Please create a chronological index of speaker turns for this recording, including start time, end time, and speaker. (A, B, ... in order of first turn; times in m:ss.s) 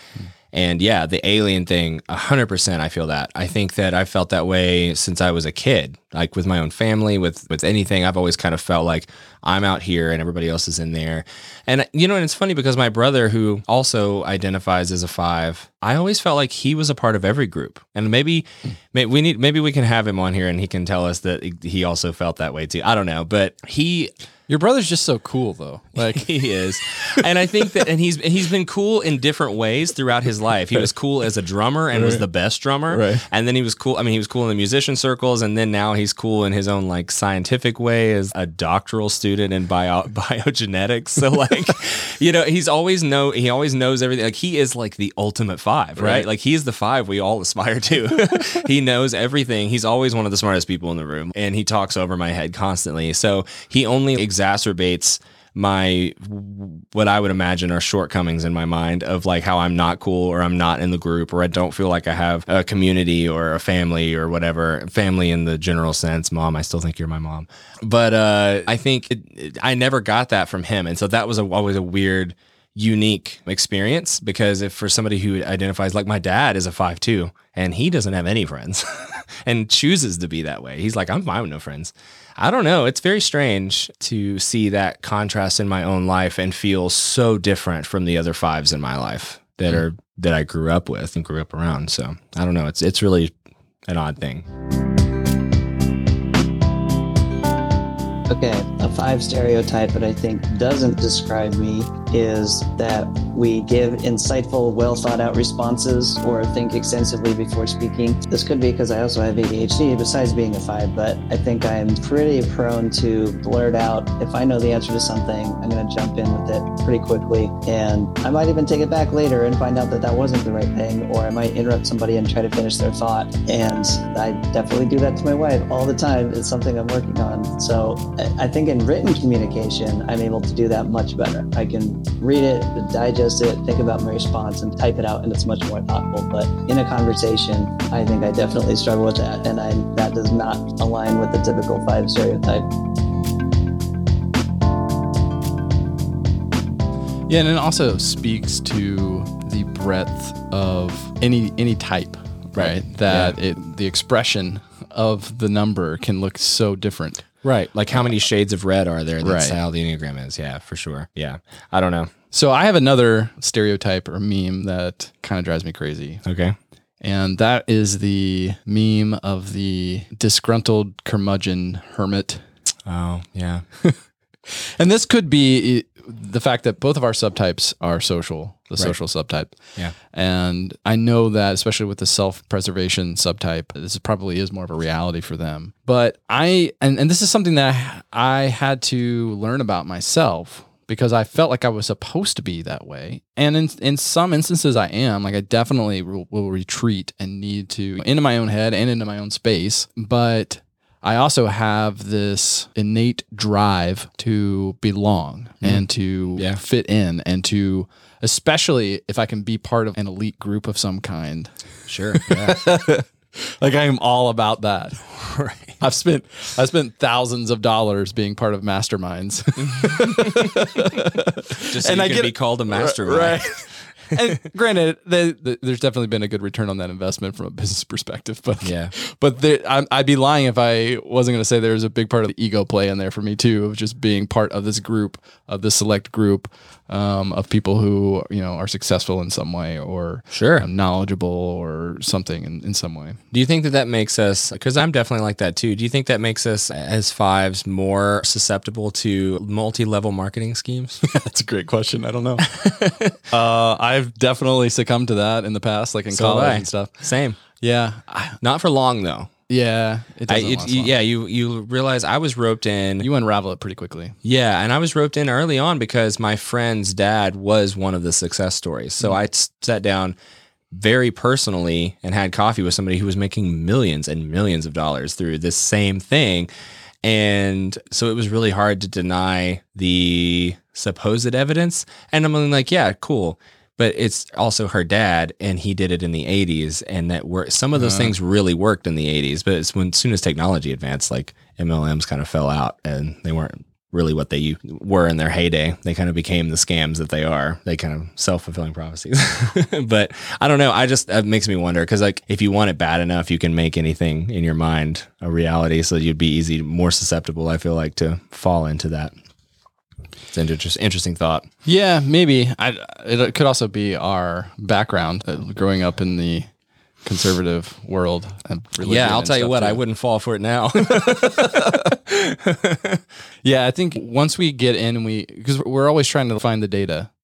0:00.5-0:24.1 A
0:24.5-0:26.5 B
0:26.0-1:33.3 A
0:31.9-0:32.2 B
0:32.9-0:33.2 B
0:46.0-0:46.2 B
1:33.9-1:34.4 A
1:38.3-2:22.7 C
2:27.3-2:37.3 B
2:32.6-2:33.4 A
2:37.4-2:42.1 A
2:39.2-2:39.6 B
2:42.3-2:46.2 B
2:46.2-2:46.6 A
2:47.0-2:52.4 B
2:52.8-2:53.6 A
2:54.5-2:59.6 B
3:00.1-3:31.5 B
3:31.9-3:32.6 A
3:32.1-3:35.1 B
3:35.2-3:35.8 A
3:35.8-4:03.2 B
3:39.6-3:40.6 A
3:41.7-3:43.4 A
3:48.6-3:48.9 A
4:00.3-4:00.7 A
4:03.3-4:11.0 A
4:11.0-4:12.5 B
4:12.5-4:13.1 A
4:13.2-4:17.0 B
4:16.1-4:17.4 A
4:17.6-4:18.4 B
4:18.4-4:19.3 A
4:19.5-4:20.9 B
4:20.3-4:23.1 A
4:23.0-4:24.2 B
4:24.2-4:30.1 A
4:30.7-4:36.5 A
4:37.0-5:09.1 A
4:47.8-4:48.1 B
5:10.3-5:11.5 A
5:11.6-5:16.5 B
5:17.0-5:19.8 B
5:18.8-5:23.0 A
5:20.9-5:21.9 B
5:23.4-5:27.1 B